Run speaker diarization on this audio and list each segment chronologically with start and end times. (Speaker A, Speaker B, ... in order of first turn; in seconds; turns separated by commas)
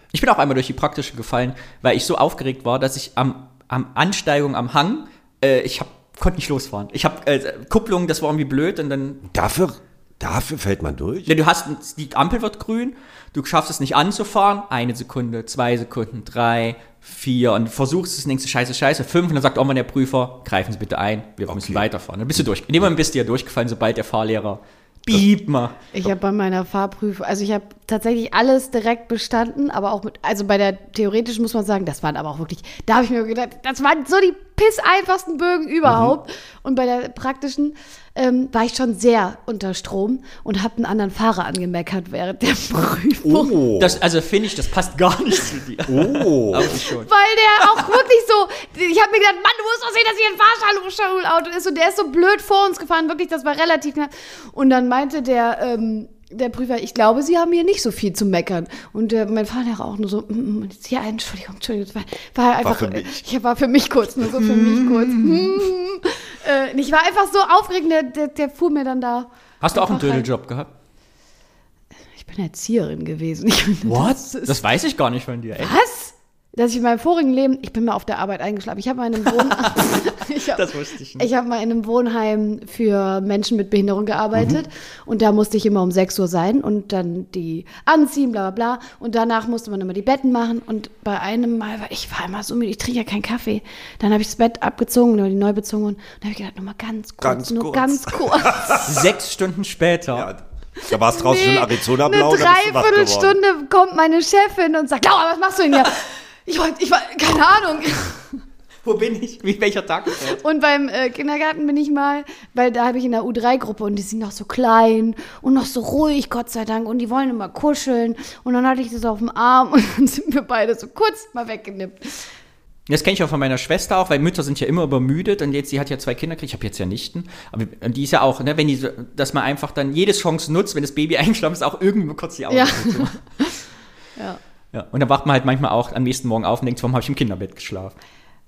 Speaker A: 0.1-9.2, Speaker B: 9.3-11.3, Speaker A: 11.3-25.8, Speaker B: 21.5-21.8, Speaker C: 25.9-43.6, Speaker B: 35.8-36.1, Speaker B: 43.2-44.0, Speaker A: 43.8-47.1, Speaker B: 45.9-46.7, Speaker C: 46.6-70.3, Speaker A: 47.6-47.9, Speaker B: 62.6-63.2, Speaker A: 64.4-65.6, Speaker A: 69.6-70.7, Speaker C: 72.2-74.6, Speaker A: 73.8-75.7, Speaker C: 75.6-98.9, Speaker A: 79.3-81.3, Speaker B: 97.2-99.0, Speaker A: 98.8-100.3, Speaker B: 100.1-103.4, Speaker C: 100.9-108.2, Speaker A: 108.8-110.4, Speaker C: 110.2-122.3, Speaker A: 122.9-133.2, Speaker C: 132.5-133.6, Speaker A: 134.7-137.9